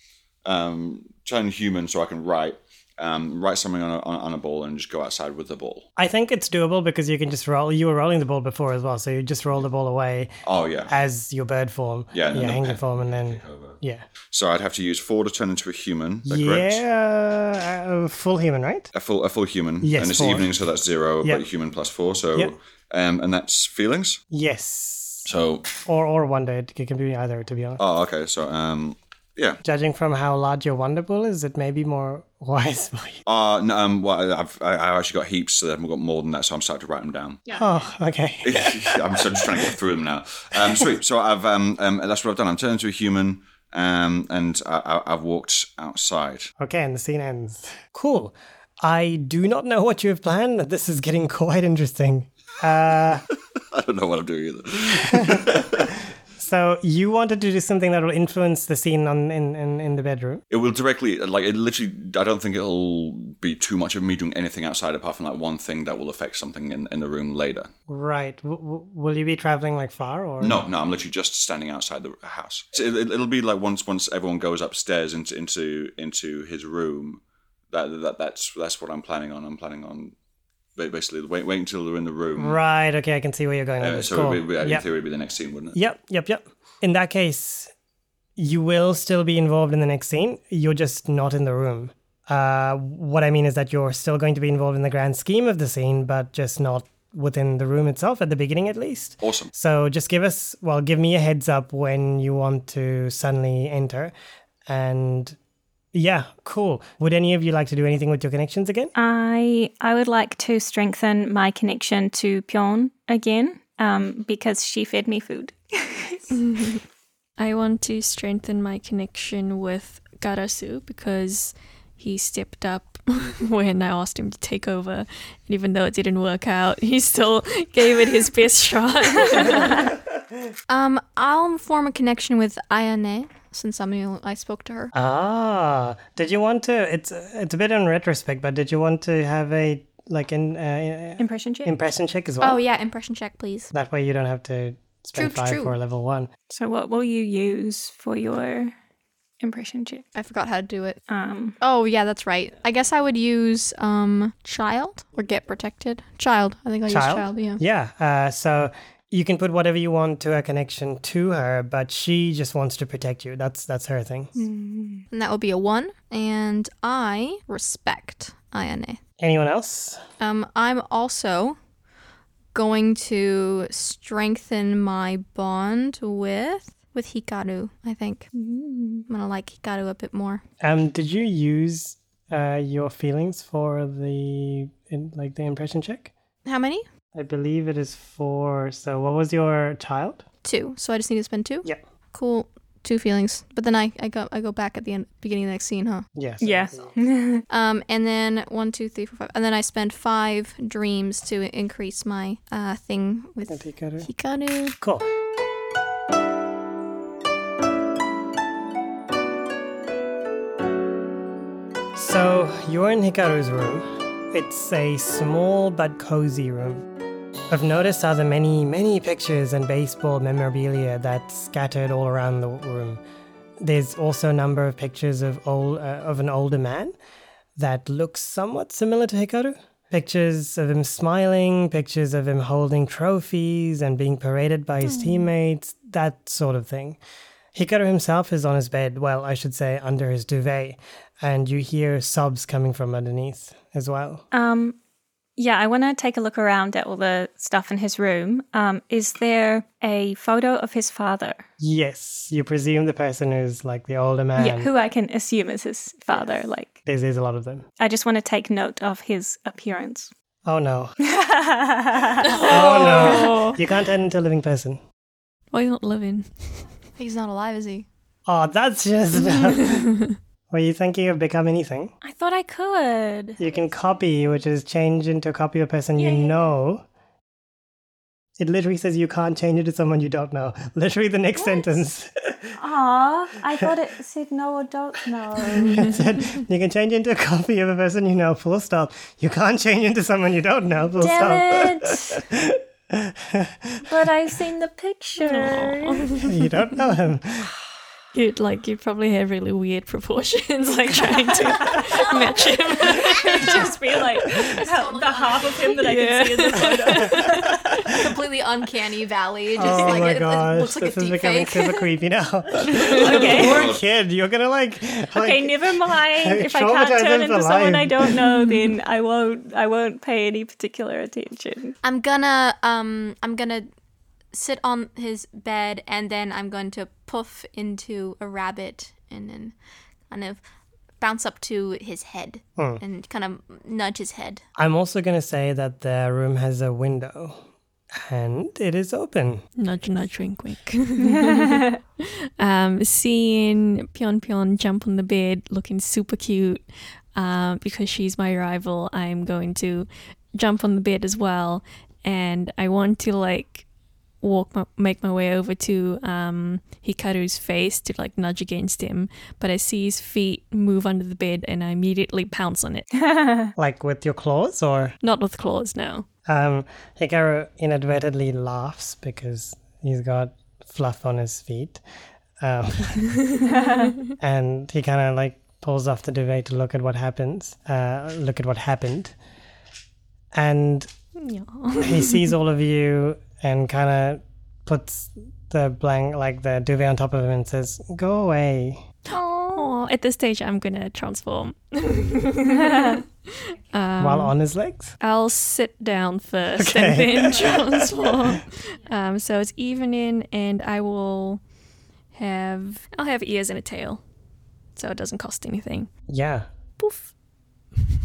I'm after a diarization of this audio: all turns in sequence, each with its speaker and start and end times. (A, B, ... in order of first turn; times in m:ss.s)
0:00.4-0:05.9 A
0:06.0-0:10.4 B
0:10.4-0:10.9 A
0:10.9-0:14.0 B
0:12.1-0:13.8 A
0:14.3-0:16.8 A
0:16.3-0:18.9 B
0:18.9-0:24.2 A
0:19.8-0:20.5 B
0:24.3-0:25.3 B
0:25.2-0:25.7 A
0:25.8-0:27.8 B
0:27.8-0:29.6 A
0:29.6-0:33.2 B
0:33.3-0:37.4 A
0:37.5-0:39.7 B
0:38.4-0:46.5 A
0:46.6-0:53.3 B
0:53.6-0:55.9 A
0:55.2-0:55.6 B
0:56.4-1:00.4 B
1:00.5-1:07.7 A
1:07.9-1:10.6 B
1:10.4-1:20.2 A
1:20.8-1:22.6 A
1:22.4-1:24.8 B
1:23.8-1:25.8 A
1:25.7-1:27.7 B
1:28.4-1:44.1 B
1:39.2-1:39.5 A
1:44.7-1:45.4 B
1:45.9-1:48.9 B
1:49.0-1:56.3 C
1:56.4-1:56.8 D
1:57.4-2:09.8 D
2:10.7-2:14.9 E
2:14.9-2:22.6 B
2:21.2-2:21.7 C
2:22.4-2:23.7 E
2:23.7-2:26.3 B
2:25.2-2:25.8 E
2:26.5-2:28.7 C
2:29.4-2:30.1 C
2:30.2-2:31.0 E
2:31.1-2:31.6 C
2:31.6-2:37.6 E
2:36.9-2:44.3 B
2:44.4-2:45.1 C
2:45.1-2:49.0 E
2:49.2-2:50.0 B
2:50.2-2:51.6 E
2:52.5-2:58.3 E
2:58.3-2:59.1 C
2:59.1-3:00.4 E
3:00.6-3:06.1 B
3:06.4-3:06.9 E
3:07.2-3:10.2 B
3:10.4-3:16.1 E
3:16.2-3:16.9 B
3:16.4-3:17.5 C
3:17.5-3:24.8 E
3:23.5-3:24.1 B
3:24.8-3:25.1 B
3:31.9-3:36.8 B
3:37.5-3:43.0 B
3:43.6-3:46.9 B
3:47.6-3:57.0 B
3:57.6-4:04.2 B
4:04.3-4:04.8 C
4:05.4-4:11.4 C
4:11.6-4:14.7 B
4:14.4-4:16.8 C
4:16.9-4:17.6 B
4:17.8-4:20.1 C
4:20.5-4:21.0 B
4:21.0-4:23.5 C
4:22.2-4:23.6 D
4:22.4-4:24.8 B
4:25.5-4:26.3 D
4:27.0-4:27.9 E
4:28.3-4:29.9 B
4:29.6-4:30.1 D
4:30.5-4:31.9 B
4:32.0-4:33.4 F
4:32.9-4:33.2 C
4:33.4-4:36.8 B
4:38.4-4:42.5 B
4:42.7-4:45.7 F
4:45.7-4:46.0 D
4:45.7-4:53.8 B
4:51.0-4:52.0 F
4:53.9-4:56.1 F
4:55.2-4:56.2 D
4:56.2-4:57.5 B
4:58.1-5:03.7 D
5:01.6-5:02.1 C
5:02.9-5:07.9 C
5:04.6-5:05.8 E
5:05.8-5:07.7 D
5:07.9-5:11.9 E
5:09.6-5:18.2 B
5:12.8-5:13.8 A
5:12.9-5:13.6 C
5:15.2-5:21.8 C
5:18.3-5:18.7 D
5:21.8-5:23.7 E
5:24.3-5:29.5 E
5:30.1-5:30.4 E
5:31.0-5:34.4 E
5:34.6-5:37.4 B
5:38.0-5:39.4 B
5:39.6-5:53.7 D
5:41.0-5:41.8 C
5:54.2-6:02.9 D
6:03.0-6:03.5 C
6:03.6-6:05.0 B
6:05.0-6:06.1 D
6:06.3-6:11.8 B
6:12.4-6:13.2 B
6:13.5-6:13.9 C
6:14.2-6:19.2 B
6:20.3-6:20.9 B
6:21.2-6:22.3 D
6:21.8-6:28.9 B
6:29.1-6:29.7 F
6:29.6-6:34.4 D
6:32.5-6:33.0 C
6:34.0-6:35.0 B
6:35.0-6:41.4 D
6:36.6-6:38.1 B
6:42.1-6:44.0 D
6:44.8-6:45.9 D
6:46.1-6:46.5 B
6:46.8-6:47.1 D